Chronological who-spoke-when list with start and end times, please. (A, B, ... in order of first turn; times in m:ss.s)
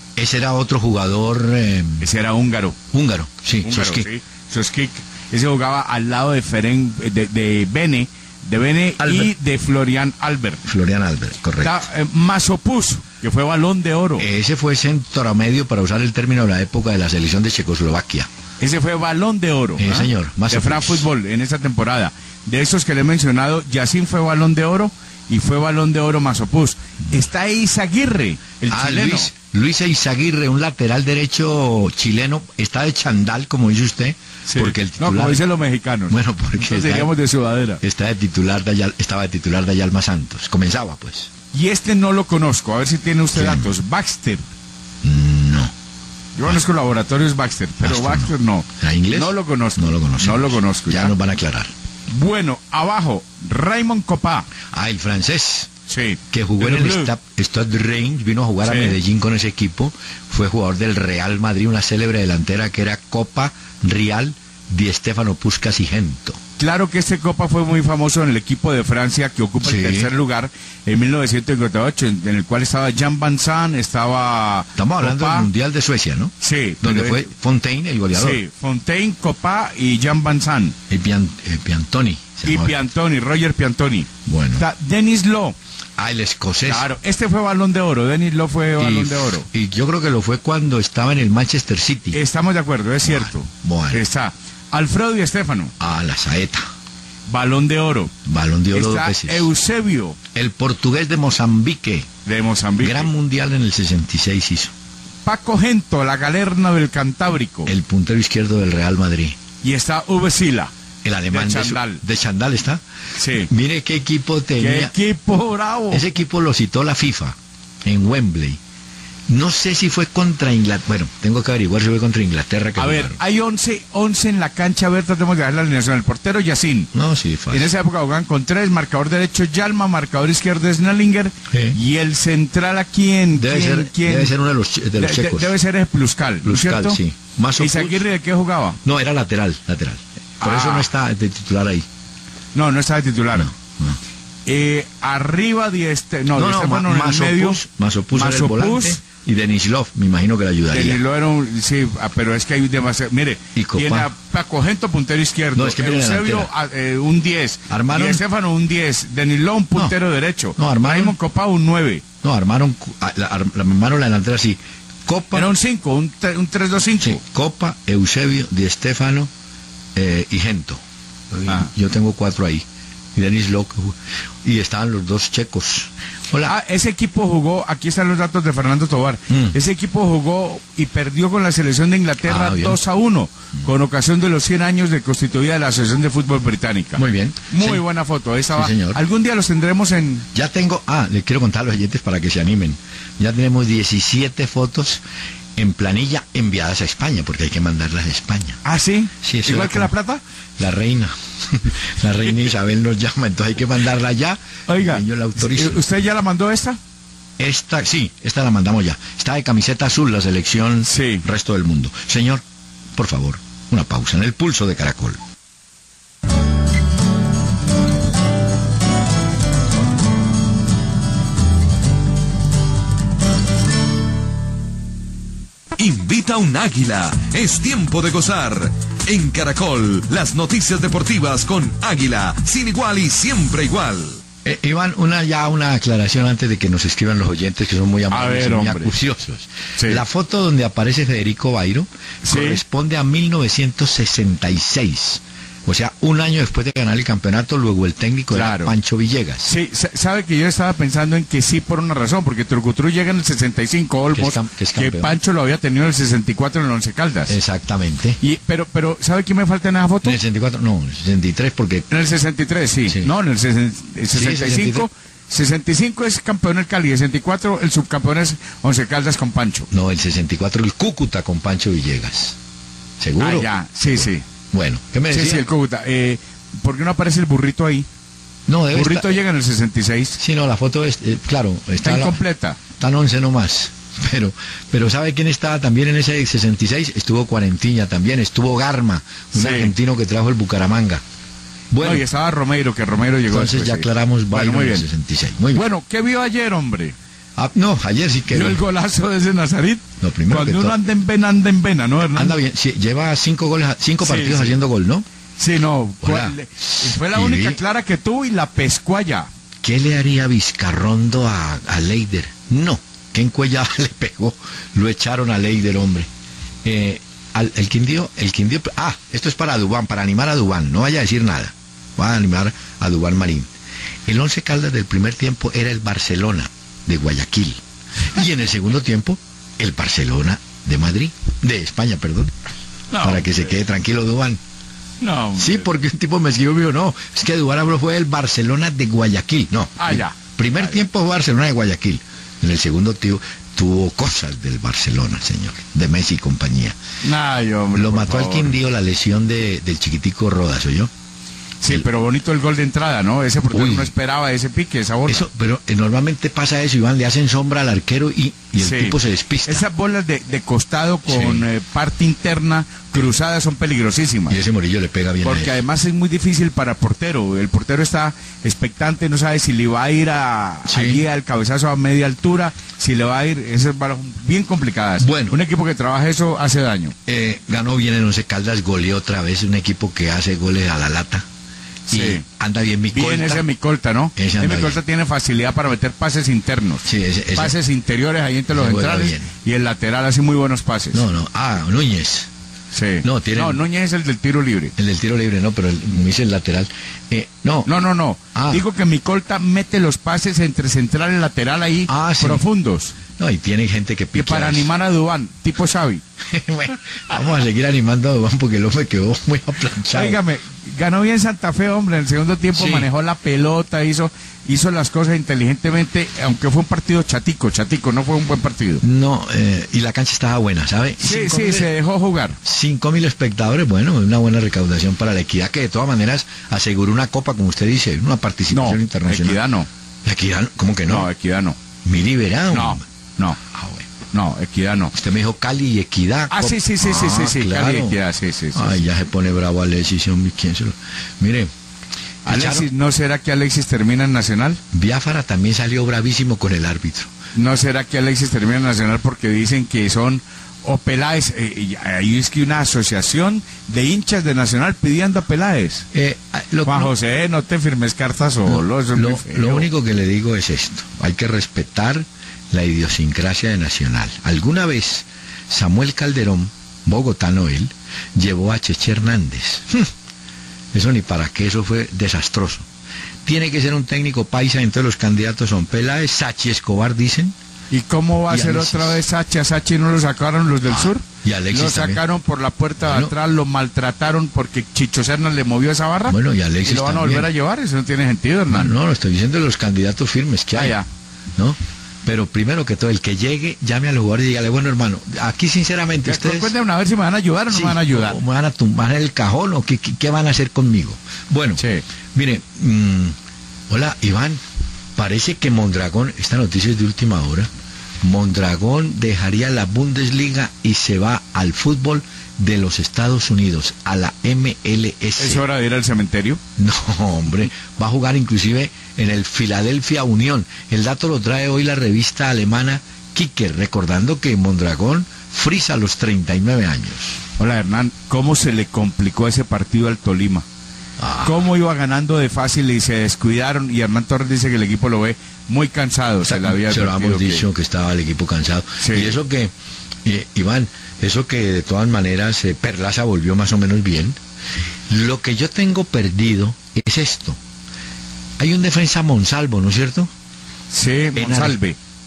0:00.2-0:02.0 A
0:02.0-0:02.8 B
0:02.9-0:04.1 A
0:03.6-0:10.6 B
0:09.0-0:09.3 A
0:10.6-0:11.8 A
0:11.6-0:14.2 B
0:14.2-0:18.3 A
0:18.6-0:29.3 B
0:19.8-0:21.1 A
0:28.7-0:35.4 A
0:34.5-0:37.8 B
0:36.1-0:37.1 A
0:37.8-0:41.3 A
0:41.5-0:44.4 B
0:43.3-0:43.7 A
0:45.0-0:45.7 A
0:46.4-0:51.1 B
0:47.8-0:51.7 A
0:52.1-0:54.5 B
0:54.7-0:55.7 A
0:55.9-0:57.1 B
0:56.3-1:06.4 A
0:58.6-0:59.0 B
1:06.6-1:15.5 B
1:09.6-1:10.1 A
1:14.8-1:18.4 A
1:16.4-1:17.3 B
1:18.1-1:20.7 B
1:20.9-1:22.8 A
1:22.4-1:25.6 B
1:24.2-1:24.7 A
1:26.0-1:26.9 A
1:26.6-1:29.4 B
1:28.8-1:32.2 A
1:32.1-1:35.7 B
1:33.0-1:34.0 A
1:35.8-1:36.6 A
1:37.3-1:38.1 B
1:38.2-1:39.5 A
1:38.7-1:40.2 B
1:40.3-1:42.1 A
1:42.2-1:43.1 B
1:42.8-1:44.7 A
1:45.2-1:47.7 B
1:47.7-1:49.4 A
1:49.6-1:50.7 B
1:51.0-1:52.8 A
1:51.3-1:52.0 B
1:53.2-1:53.5 B
1:53.4-1:54.9 A
1:54.6-1:56.1 B
1:55.9-1:58.6 A
1:59.3-2:03.2 A
2:02.8-2:06.9 B
2:06.9-2:07.7 A
2:07.5-2:14.3 B
2:11.5-2:11.8 A
2:13.4-2:15.5 A
2:15.0-2:17.0 B
2:16.4-2:18.0 A
2:17.6-2:18.8 B
2:18.8-2:21.9 A
2:20.4-2:20.9 B
2:22.5-2:23.5 B
2:23.3-2:24.0 A
2:24.4-2:27.6 B
2:26.3-2:31.0 A
2:28.1-2:29.0 B
2:30.7-2:42.0 B
2:33.5-2:34.1 A
2:35.5-2:36.5 A
2:37.7-2:38.2 A
2:40.6-2:41.2 A
2:42.2-2:45.5 A
2:45.3-2:47.2 B
2:47.0-2:49.3 A
2:49.9-2:56.5 A
2:56.4-3:10.2 B
2:59.3-2:59.6 A
3:02.2-3:02.8 A
3:07.0-3:07.8 A
3:08.5-3:09.0 A
3:10.3-3:15.0 A
3:15.6-3:18.6 A
3:18.6-3:20.2 B
3:19.2-3:19.9 A
3:20.6-3:25.8 A
3:24.7-3:26.8 B
3:27.4-3:32.4 A
3:30.8-3:31.2 B
3:32.9-3:35.2 A
3:45.8-3:54.2 C
3:54.4-4:09.5 A
3:58.1-3:59.0 B
3:59.8-4:00.0 B
4:02.2-4:02.6 B
4:08.3-4:08.7 B
4:09.4-4:17.3 B
4:14.1-4:15.1 A
4:17.3-4:18.2 A
4:18.2-4:20.2 B
4:20.0-4:21.9 A
4:21.9-4:29.7 B
4:22.9-4:23.1 A
4:24.1-4:24.9 A
4:29.7-4:32.4 A
4:33.0-4:35.5 A
4:33.2-4:34.2 B
4:35.1-4:37.9 B
4:38.5-4:39.1 A
4:38.7-4:40.2 B
4:40.2-4:42.2 A
4:41.8-4:42.6 B
4:42.8-4:51.0 A
4:49.3-4:49.7 B
4:51.7-4:52.0 A
4:51.8-4:54.8 B
4:53.3-4:55.7 A
4:55.5-4:57.0 B
4:57.4-4:58.6 A
4:58.3-5:02.4 B
5:00.0-5:00.8 A
5:02.1-5:05.0 A
5:04.0-5:04.6 B
5:05.4-5:09.3 B
5:06.0-5:07.6 A
5:09.6-5:16.1 A
5:16.6-5:23.5 A
5:24.1-5:32.3 A
5:32.9-5:33.3 B
5:33.0-5:34.4 A
5:35.0-5:35.7 B
5:35.4-5:46.8 A
5:39.8-5:40.8 B
5:47.0-5:48.6 B
5:47.7-5:50.9 A
5:51.6-5:55.3 B
5:53.5-5:53.9 A
5:55.1-5:59.7 A
5:58.6-6:04.4 B
6:01.1-6:01.5 A
6:04.3-6:05.6 A
6:05.2-6:16.9 B
6:10.6-6:11.0 A
6:15.0-6:15.4 A
6:17.0-6:21.2 A
6:21.9-6:22.2 B
6:21.9-6:23.5 A
6:22.9-6:31.0 B
6:24.2-6:24.8 A
6:26.8-6:27.6 A
6:28.5-6:29.3 A
6:30.9-6:32.3 A
6:32.7-6:34.7 B
6:33.0-6:33.6 A
6:34.8-6:37.7 A
6:37.6-6:43.0 B
6:38.3-6:38.6 A
6:41.9-6:42.4 A
6:43.1-6:44.7 A
6:44.1-6:46.0 B
6:46.2-6:50.2 A
6:49.9-6:58.8 B
6:52.5-6:52.9 A
6:58.8-7:01.7 A
7:01.0-7:02.4 B
7:02.4-7:09.4 A
7:08.5-7:09.7 B
7:10.0-7:11.1 A
7:10.9-7:11.6 B
7:11.8-7:12.8 A
7:12.5-7:13.4 B
7:13.4-7:13.9 A
7:14.1-7:14.9 B
7:14.9-7:18.0 A
7:16.3-7:18.8 B
7:18.5-7:21.5 A
7:22.2-7:22.7 A
7:22.2-7:24.6 B
7:24.7-7:27.1 A
7:27.3-7:35.9 B
7:35.9-7:36.9 A
7:36.6-7:39.7 B
7:38.4-7:49.9 A
7:50.7-7:52.7 A
7:53.2-7:57.4 A
7:57.7-8:08.7 B
7:58.3-7:59.0 A
8:00.7-8:02.0 A
8:02.8-8:03.1 A
8:06.1-8:07.3 A
8:08.5-8:10.8 A
8:10.6-8:10.9 B
8:11.4-8:16.5 A
8:16.0-8:18.2 B
8:17.5-8:21.6 A
8:21.6-8:21.8 B
8:22.1-8:23.2 A
8:23.7-8:24.4 A
8:25.0-8:27.5 A
8:28.0-8:35.4 A
8:35.2-8:36.4 B
8:36.6-8:47.2 A
8:47.4-8:50.4 B
8:51.0-8:51.5 A
8:51.2-8:57.4 B
8:56.2-8:59.5 A
8:58.8-8:59.2 B
9:00.0-9:04.2 A
9:04.9-9:07.4 A
9:08.4-9:10.1 A
9:10.7-9:11.8 B
9:11.1-9:11.6 A